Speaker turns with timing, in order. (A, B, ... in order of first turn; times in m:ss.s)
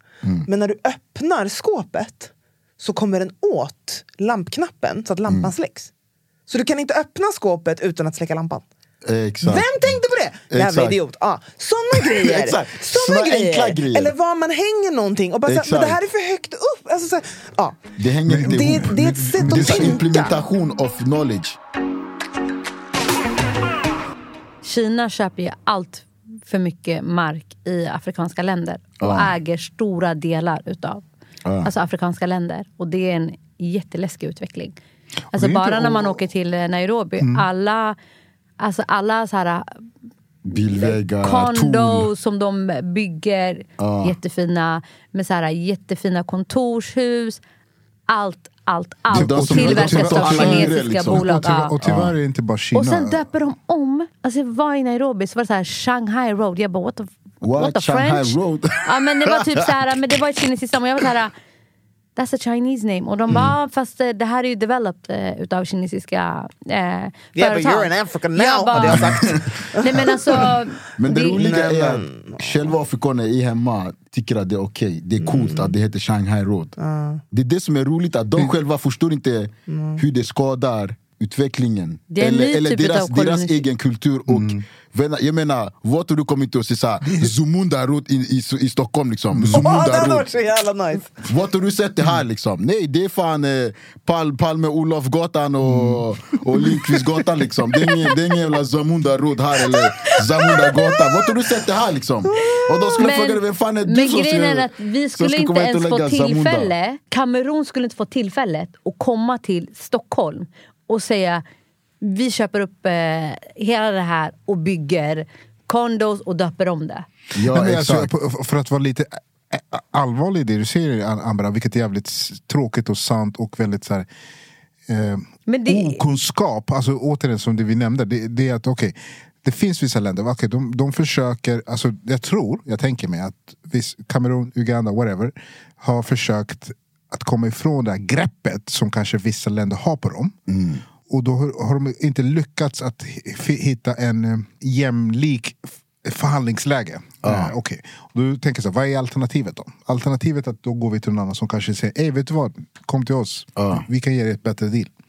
0:00.2-0:00.5 A
0:00.5-0:05.9 B
0:05.3-0:05.5 A
0:06.5-0:08.6 B
0:09.0-0:09.9 A
0:09.4-0:17.8 B
0:10.5-0:11.0 A
0:12.1-0:14.1 A
0:15.5-0:16.0 A
0:18.0-0:21.6 A
0:18.3-0:20.0 C
0:18.4-0:20.4 B
0:24.6-0:31.0 D
0:29.0-0:29.4 A
0:31.4-0:31.7 A
0:31.6-0:34.8 D
0:35.3-0:36.2 C
0:35.3-0:38.0 D
0:37.2-0:37.4 C
0:38.6-0:39.7 D
0:40.4-0:42.1 A
0:40.5-0:47.4 D
0:43.8-0:44.2 A
0:48.1-0:51.7 D
0:49.1-0:53.2 C
0:49.1-0:51.3 A
0:51.8-0:52.1 A
0:52.7-1:01.3 D
0:57.4-1:00.0 A
1:02.2-1:11.4 D
1:03.3-1:03.5 A
1:07.4-1:10.4 B
1:08.8-1:09.4 A
1:11.0-1:16.8 A
1:11.2-1:12.7 B
1:15.2-1:15.7 B
1:16.8-1:17.2 B
1:17.3-1:30.3 A
1:19.7-1:20.0 B
1:22.1-1:23.6 D
1:24.3-1:24.6 C
1:27.0-1:27.3 C
1:29.3-1:29.6 C
1:29.6-1:31.1 B
1:31.2-1:46.7 A
1:35.6-1:36.9 C
1:39.7-1:40.9 D
1:42.5-1:51.4 D
1:52.0-1:57.1 D
1:57.4-1:58.1 A
1:57.4-2:04.1 C
2:04.9-2:20.3 C
2:05.5-2:06.0 D
2:20.5-2:20.8 A
2:21.1-2:34.9 C
2:27.2-2:27.5 A
2:33.6-2:33.9 A